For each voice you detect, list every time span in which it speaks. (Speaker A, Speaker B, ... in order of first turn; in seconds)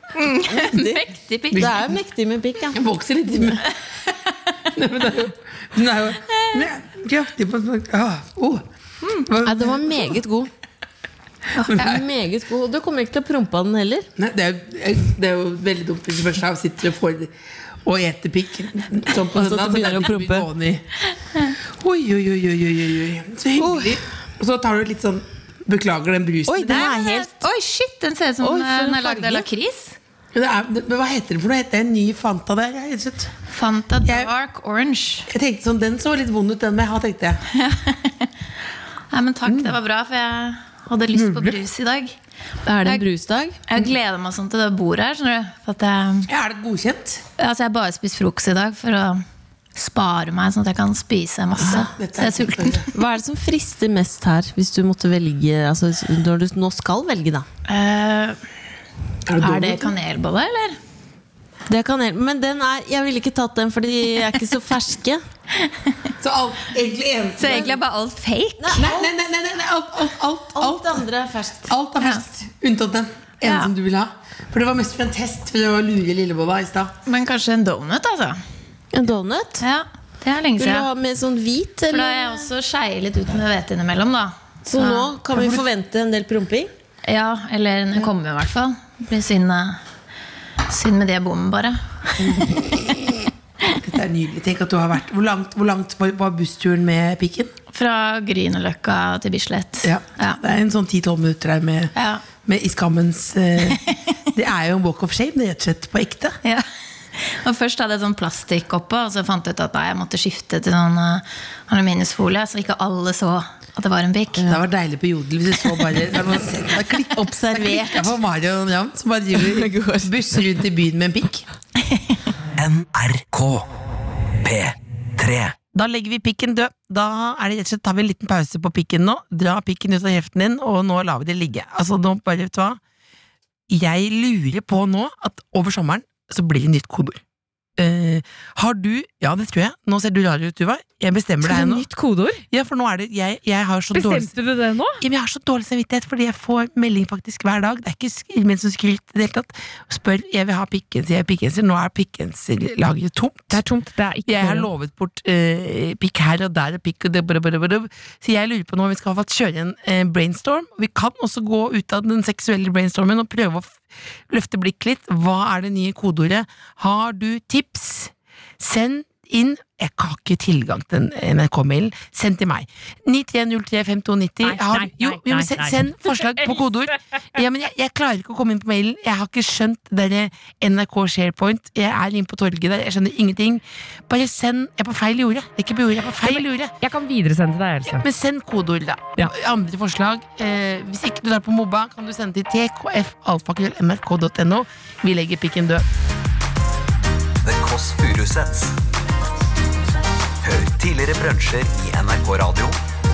Speaker A: 0.1-1.8, 3.6-4.6, 21.1-21.5, 26.7-29.9, 33.5-35.3, 37.5-38.3, 39.1-42.1, 43.6-46.3, 47.4-49.2, 49.8-52.9, 57.7-58.4, 59.4-60.8, 67.4-68.8, 72.0-72.2, 73.4-73.7, 77.0-78.4, 79.6-80.9, 81.9-85.1, 87.0-89.8, 90.7-92.4, 97.7-100.4, 101.9-102.2, 103.7-104.0, 107.1-114.6
Speaker B: 0.5-1.0, 1.6-2.8, 9.4-10.5, 11.6-14.1, 19.1-20.5, 23.6-24.0, 26.4-27.4, 28.4-29.5, 42.6-43.6, 52.9-57.5, 61.7-65.2, 68.6-69.1, 70.5-71.7, 78.9-79.6, 80.5-82.5, 84.7-86.7, 117.2-118.2, 119.3-120.1
Speaker C: 1.5-1.9, 2.7-3.7, 4.7-10.2, 11.6-12.0, 14.2-17.3, 17.8-20.8, 21.8-26.9, 30.3-33.3, 34.0-34.3, 35.3-37.4, 39.4-39.8, 41.1-41.6, 46.3-47.2, 51.6-52.9, 59.2-59.9, 66.2-67.8, 68.8-71.0, 71.6-76.9, 85.3-85.6, 92.3-93.0, 93.7-97.5, 99.8-101.9, 102.4-103.8, 104.3-106.4, 114.3-121.5, 125.7-132.8, 133.7-137.2, 137.8-141.9, 142.5-144.3, 145.0-153.6, 154.2-186.7, 187.8-195.8
Speaker D: 122.6-123.7, 124.4-125.5, 197.4-198.7, 200.4-202.8
Speaker E: 141.4-142.4, 143.9-145.0, 153.5-154.7, 174.4-177.0, 186.2-188.0